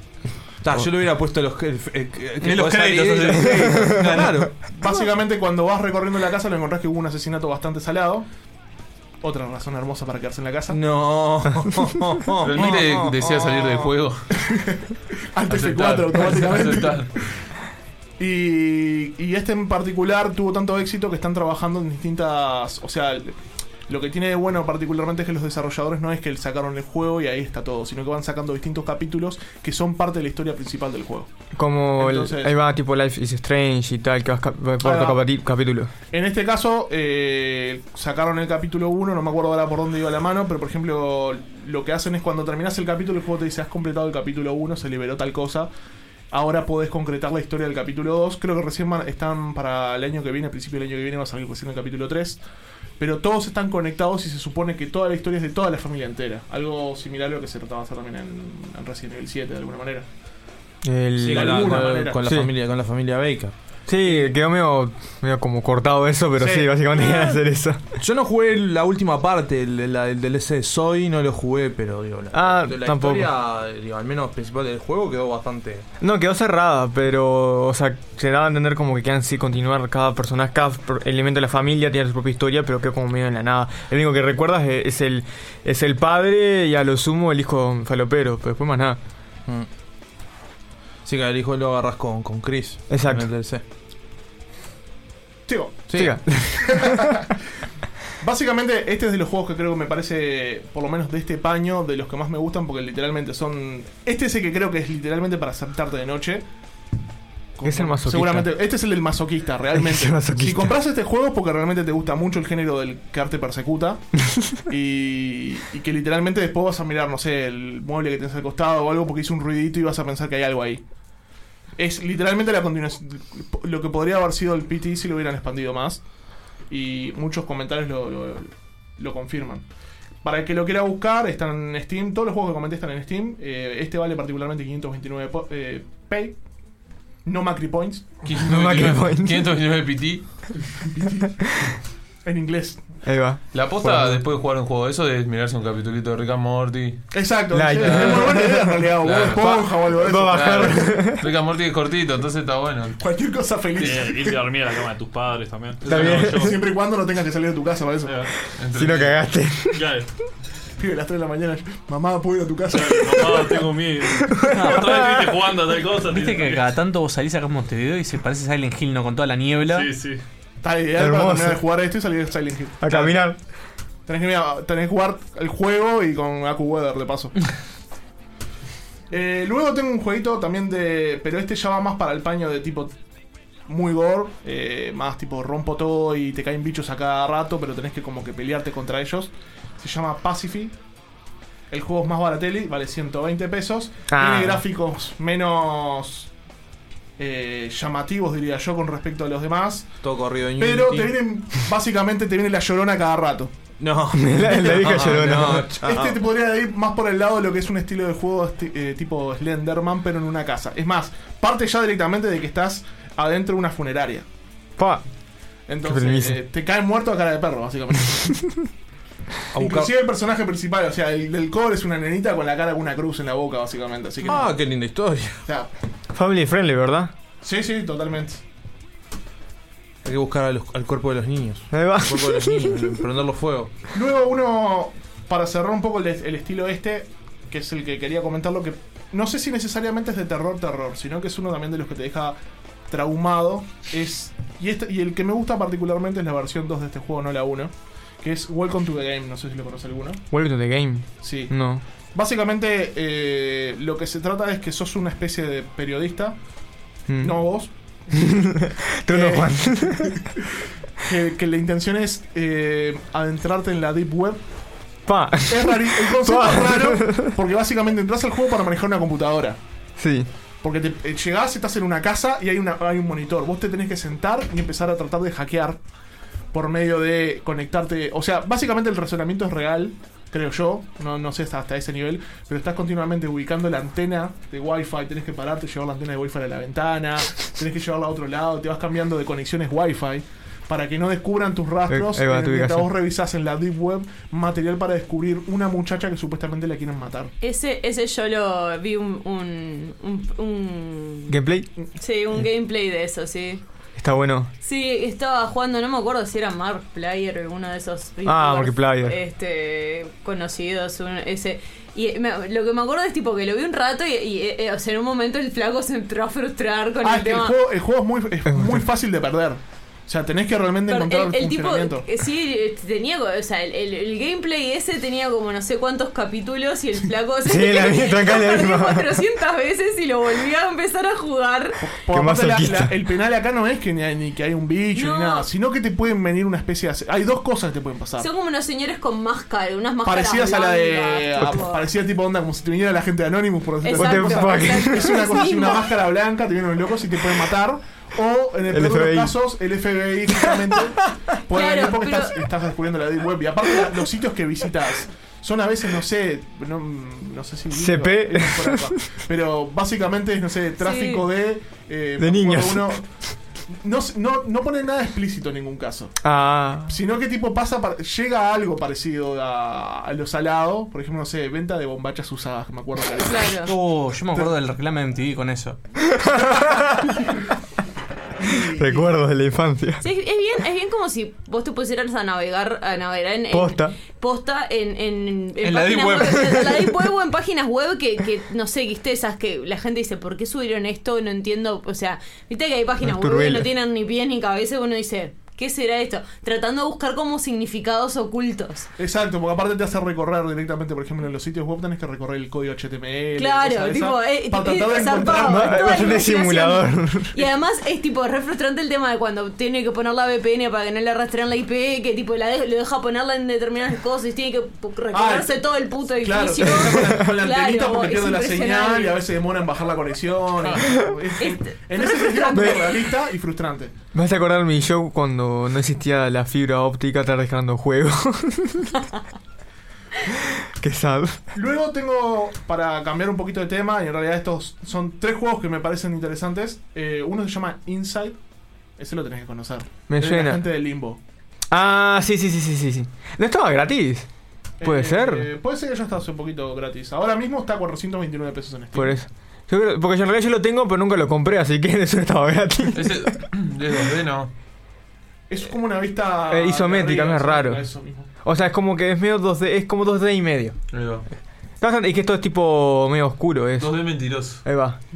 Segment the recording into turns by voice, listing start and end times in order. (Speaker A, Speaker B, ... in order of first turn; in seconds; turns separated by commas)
Speaker A: 0.6-4.5, Speaker B: 2.4-4.3, Speaker C: 3.5-4.2, Speaker D: 4.7-8.3, Speaker D: 9.2-10.8, Speaker A: 10.7-13.5, Speaker E: 12.4-14.3, Speaker D: 14.4-17.1, Speaker E: 15.5-17.1, Speaker D: 18.2-23.4, Speaker D: 23.9-31.3, Speaker C: 31.6-35.9, Speaker D: 32.0-32.5, Speaker D: 34.8-35.2, Speaker D: 36.1-45.7, Speaker D: 46.3-52.4, Speaker D: 53.0-60.1, Speaker C: 60.8-62.5, Speaker A: 61.2-63.5, Speaker D: 61.2-62.2, Speaker C: 63.9-67.8, Speaker D: 66.4-66.7, Speaker A: 68.0-75.9, Speaker C: 72.3-73.3, Speaker C: 76.0-89.0, Speaker A: 91.0-93.6, Speaker C: 92.9-93.3, Speaker D: 95.5-96.0, Speaker A: 95.9-96.2, Speaker C: 95.9-97.2, Speaker D: 96.7-97.2, Speaker D: 98.2-106.5, Speaker D: 107.6-114.0, Speaker C: 107.7-108.5, Speaker C: 109.8-110.7, Speaker D: 114.7-120.8, Speaker D: 121.8-126.0, Speaker D: 126.7-129.7, Speaker D: 130.2-136.4, Speaker D: 137.2-138.1, Speaker E: 138.2-140.2, Speaker C: 138.5-139.5, Speaker D: 140.8-141.4, Speaker D: 142.2-142.8, Speaker C: 143.1-144.2, Speaker E: 143.5-147.1, Speaker D: 147.1-150.8, Speaker C: 147.5-151.2, Speaker E: 147.8-148.4, Speaker E: 149.0-149.4, Speaker E: 150.2-153.0, Speaker D: 153.0-154.4, Speaker E: 153.8-154.1, Speaker F: 153.8-156.6, Speaker C: 155.9-156.5, Speaker D: 155.9-158.2, Speaker F: 158.1-158.3, Speaker E: 158.6-159.2, Speaker C: 158.7-159.9, Speaker F: 159.7-160.1, Speaker D: 160.8-163.6, Speaker F: 162.7-166.7, Speaker C: 164.3-165.4, Speaker B: 164.5-165.1, Speaker B: 166.1-169.9, Speaker F: 169.6-170.2, Speaker D: 170.6-173.2, Speaker C: 171.0-171.6, Speaker C: 172.8-173.4, Speaker D: 174.1-177.3, Speaker D: 179.1-182.9, Speaker D: 183.7-190.7, Speaker D: 191.7-196.3, Speaker C: 194.1-194.6, Speaker D: 197.2-199.9, Speaker A: 200.0-201.2, Speaker D: 200.6-203.5, Speaker A: 203.8-206.2, Speaker C: 204.1-205.7, Speaker D: 205.7-214.2, Speaker C: 214.8-215.0, Speaker D: 215.7-218.4, Speaker C: 215.9-216.4, Speaker A: 219.5-219.9, Speaker D: 219.6-224.5, Speaker A: 224.2-225.4, Speaker C: 226.1-227.1, Speaker D: 227.4-228.4, Speaker A: 230.0-233.7, Speaker C: 231.7-232.9, Speaker D: 233.9-242.4, Speaker D: 242.9-250.2, Speaker C: 250.3-251.8, Speaker D: 251.2-251.5, Speaker D: 252.1-256.4, Speaker C: 257.1-257.4, Speaker D: 257.2-257.7, Speaker C: 258.2-260.3, Speaker D: 259.1-260.4, Speaker D: 261.0-264.4, Speaker C: 265.1-267.3, Speaker D: 265.5-269.6, Speaker C: 270.0-270.3, Speaker D: 270.6-275.8, Speaker D: 276.5-297.3, Speaker C: 291.9-292.9, Speaker G: 297.4-301.4, Speaker C: 301.3-301.7, Speaker G: 301.9-303.6, Speaker C: 304.0-304.5, Speaker G: 304.6-317.5, Speaker C: 308.2-309.2, Speaker D: 317.0-322.1, Speaker C: 318.5-318.8, Speaker G: 320.9-331.8, Speaker C: 327.4-329.2, Speaker D: 331.8-338.3, Speaker C: 332.1-332.9, Speaker G: 334.9-335.5, Speaker G: 338.2-341.8, Speaker D: 340.0-363.1, Speaker G: 343.8-345.9, Speaker C: 344.0-345.2, Speaker C: 348.7-349.3, Speaker G: 351.5-352.4, Speaker C: 357.7-358.9, Speaker G: 360.8-361.2, Speaker C: 362.2-363.0, Speaker D: 363.7-366.2, Speaker C: 366.2-366.9, Speaker D: 366.9-373.5, Speaker G: 373.2-373.7, Speaker B: 373.6-375.8, Speaker C: 378.7-380.0, Speaker G: 380.0-398.9, Speaker C: 383.5-383.9, Speaker B: 385.6-386.9, Speaker C: 393.0-393.7, Speaker D: 399.0-406.2, Speaker G: 403.4-419.2, Speaker C: 405.2-407.4, Speaker D: 415.1-423.9, Speaker G: 421.4-423.0, Speaker C: 424.1-429.0, Speaker C: 430.3-431.4, Speaker D: 431.5-438.4, Speaker D: 439.0-441.2, Speaker C: 440.1-440.6, Speaker C: 441.7-444.3, Speaker D: 444.8-449.2, Speaker C: 444.8-445.5, Speaker C: 448.9-453.3, Speaker E: 452.9-454.5, Speaker D: 455.5-458.3, Speaker C: 456.5-457.9, Speaker C: 458.4-460.8, Speaker E: 460.9-461.2, Speaker C: 461.8-465.0, Speaker E: 463.8-464.6